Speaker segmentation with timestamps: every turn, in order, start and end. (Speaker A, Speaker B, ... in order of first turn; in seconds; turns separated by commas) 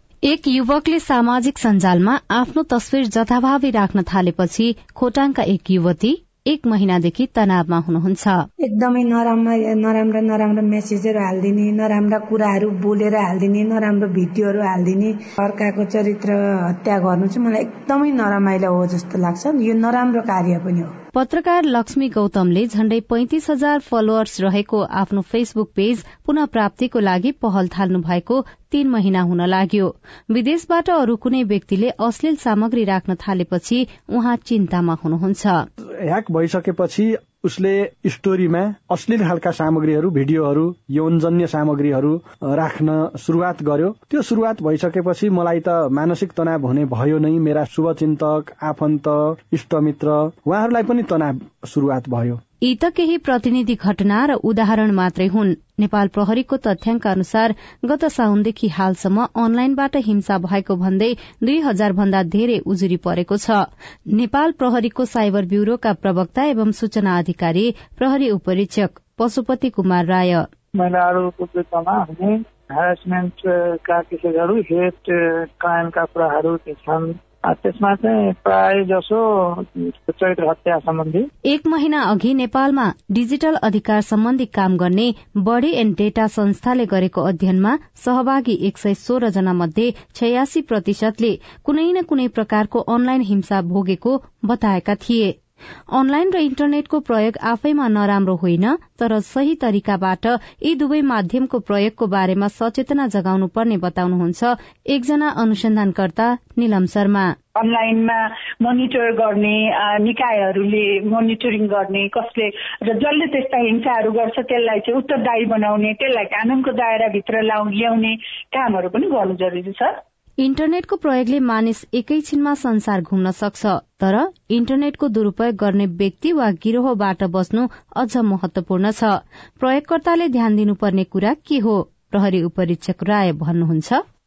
Speaker A: 0.2-8.4, Speaker B: 8.6-20.9, Speaker A: 21.1-35.7, Speaker C: 35.8-52.4, Speaker A: 52.6-70.5, Speaker D: 70.7-81.3, Speaker A: 81.4-95.3, Speaker A: 95.9-107.3, Speaker E: 107.5-120.0, Speaker A: 120.4-134.0